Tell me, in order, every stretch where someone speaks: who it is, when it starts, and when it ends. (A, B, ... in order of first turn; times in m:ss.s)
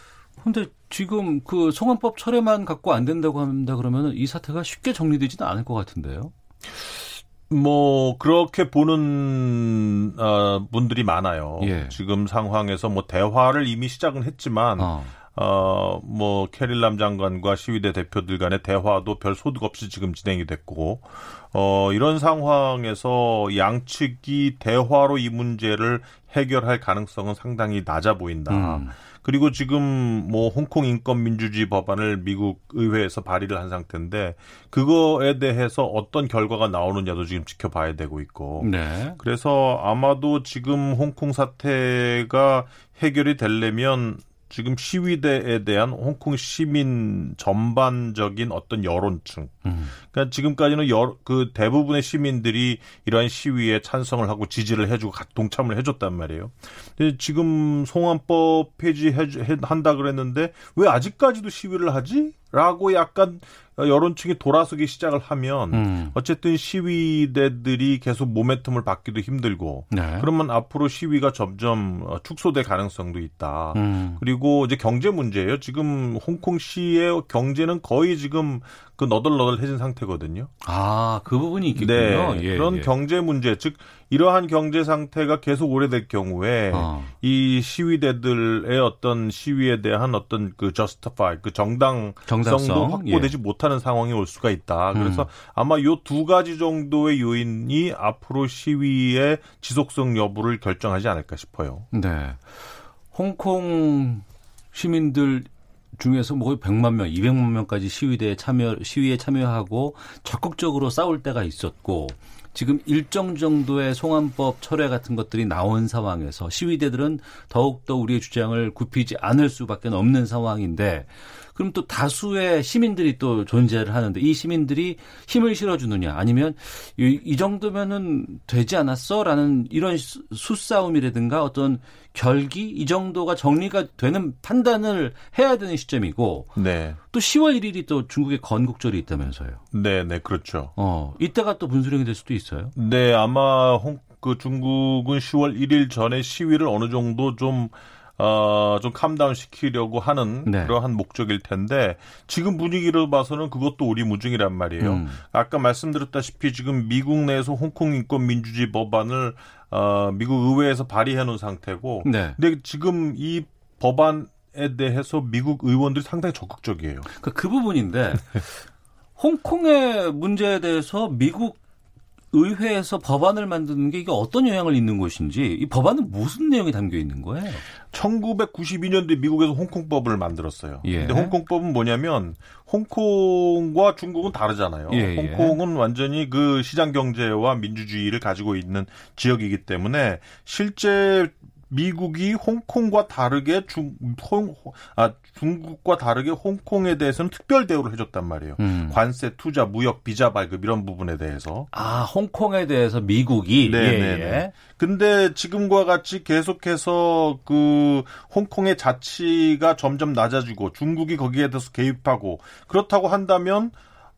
0:00.4-0:06.3 A
0:07.5-1:20.5 B
0:11.6-0:12.0 A
0:14.8-0:15.2 A
0:28.5-0:29.0 A
0:38.6-0:39.2 A
0:49.6-0:50.0 A
1:05.7-1:06.2 A
1:09.9-1:10.3 A
1:13.7-1:14.2 A
1:20.6-1:22.9 A
1:21.7-1:41.9 B
1:26.7-1:27.1 A
1:32.3-1:33.3 A
1:34.9-1:35.3 A
1:41.9-2:16.6 A
2:16.6-2:17.0 B
2:17.1-2:19.6 A
2:19.7-2:20.7 B
2:20.8-2:22.7 A
2:22.8-2:47.1 B
2:30.5-2:30.8 A
2:34.8-2:35.2 A
2:42.0-2:42.4 A
2:47.1-2:48.6 A
2:49.2-2:51.6 A
2:52.3-2:57.7 A
2:57.9-3:21.7 B
3:00.8-3:01.4 A
3:04.9-3:05.6 A
3:18.6-3:19.0 A
3:21.7-3:24.5 A
3:23.6-3:33.8 B